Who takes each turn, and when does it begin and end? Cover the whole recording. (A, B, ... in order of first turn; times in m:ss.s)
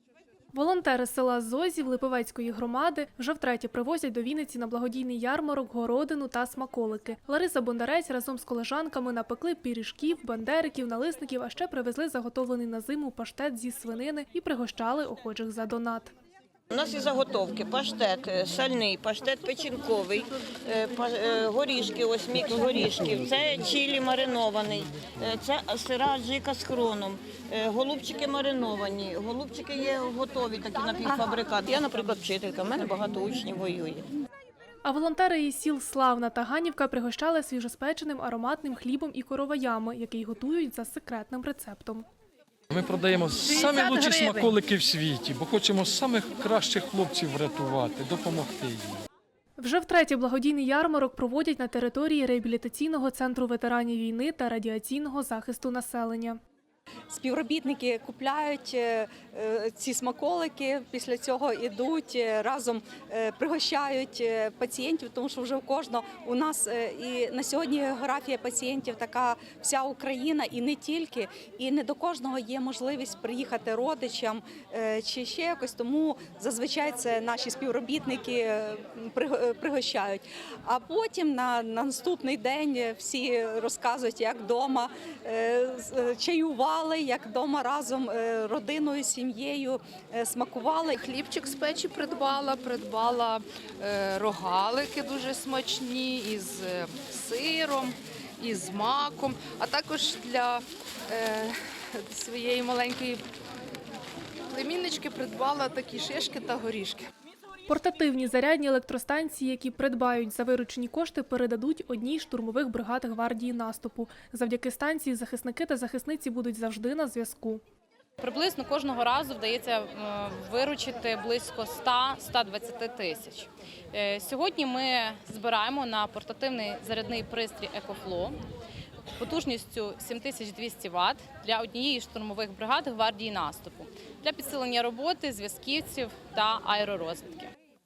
0:00.5-0:16.1 A
0:16.7-0:34.0 B
0:34.8-0:42.0 A
0:42.7-0:49.0 C
0:43.5-0:44.5 D
0:49.6-0:56.4 A
0:57.1-1:31.0 E
1:30.9-1:43.2 D
1:44.5-1:47.1 D
1:47.7-1:57.6 A
1:58.2-2:08.4 F
2:09.2-2:17.5 F